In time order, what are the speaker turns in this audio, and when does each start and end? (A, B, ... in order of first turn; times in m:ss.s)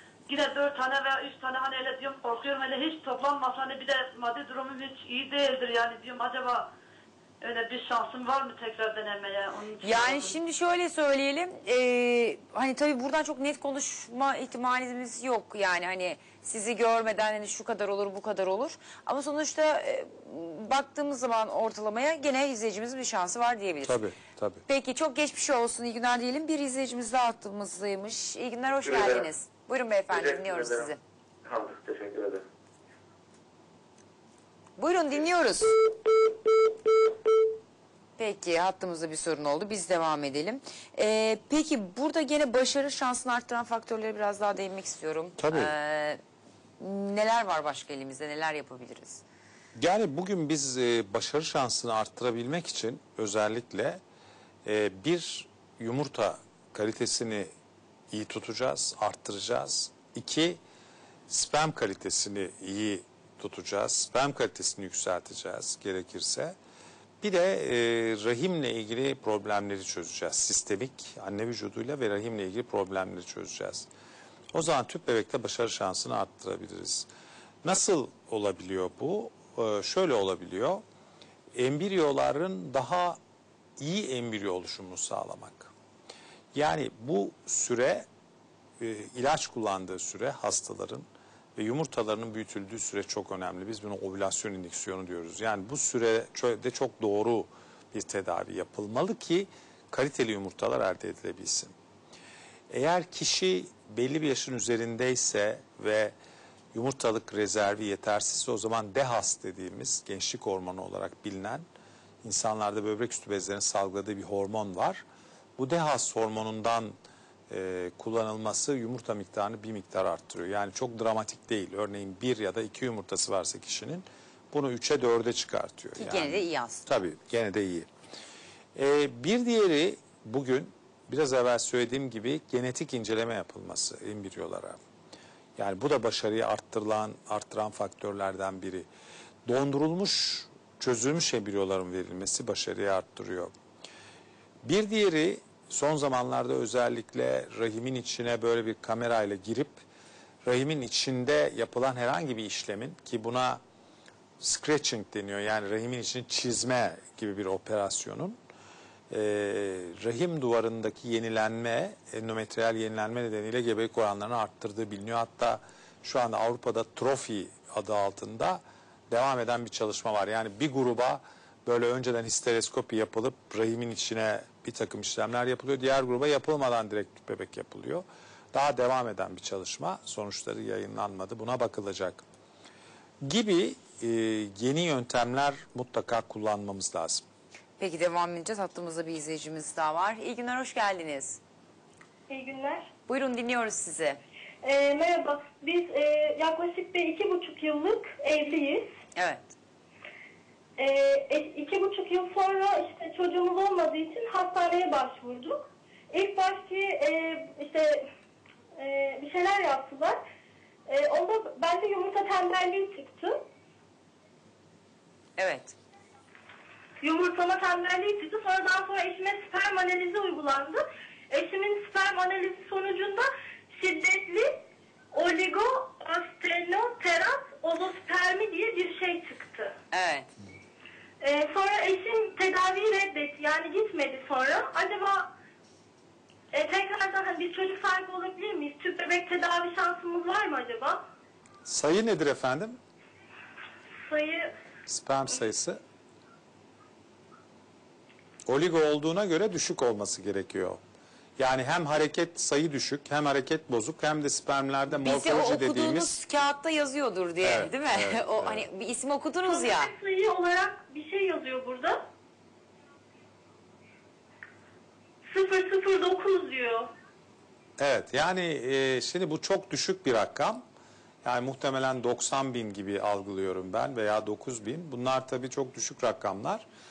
0:00.3-0:06.7 A
0:07.4-0:10.4 A
0:09.8-0:24.0 B
0:23.8-0:24.6 C
0:24.7-0:31.0 B
0:28.8-0:29.3 D
0:30.1-0:30.9 D
0:31.4-0:32.4 D
0:34.8-0:36.0 B
0:38.2-0:46.2 B
0:45.4-0:45.7 C
0:46.8-0:49.2 B
0:49.7-0:54.0 C
0:54.6-0:57.5 C
0:58.1-1:00.6 C
1:01.3-1:06.6 C
1:07.2-1:13.9 C
1:14.5-1:17.1 C
1:17.6-1:20.8 C
1:21.5-1:23.2 C
1:23.8-1:25.7 C
1:26.5-1:28.1 C
1:28.8-1:41.7 C
1:42.7-1:46.1 C
1:46.7-1:51.6 C
1:52.2-1:55.0 C
1:55.6-1:57.0 C
1:57.5-2:07.9 C
2:06.0-2:06.9 B
2:08.7-2:14.8 C
2:15.6-2:18.9 C
2:19.4-2:23.5 C
2:24.6-2:29.8 C
2:30.4-2:33.6 C
2:34.4-2:38.4 C
2:39.1-3:02.2 C
3:03.2-3:07.2 C
3:07.8-3:11.4 B
3:12.3-3:12.9 E
3:13.1-3:14.2 B
3:14.6-3:18.9 E
3:19.2-3:19.4 B
3:20.8-3:28.0 E
3:28.8-3:30.2 E
3:30.9-3:33.4 E
3:35.4-3:35.8 B
3:37.0-3:49.7 E
3:49.9-3:50.3 B
3:51.2-3:55.3 E
3:56.5-4:01.0 E
4:01.6-4:02.8 C
4:04.0-4:04.5 E
4:04.9-4:05.8 C
4:08.4-4:10.8 C
4:11.4-4:16.2 C
4:14.9-4:19.9 B
4:17.4-4:18.6 C
4:19.4-4:22.0 E
4:25.2-4:26.9 E
4:27.8-4:30.6 C
4:31.2-4:36.6 C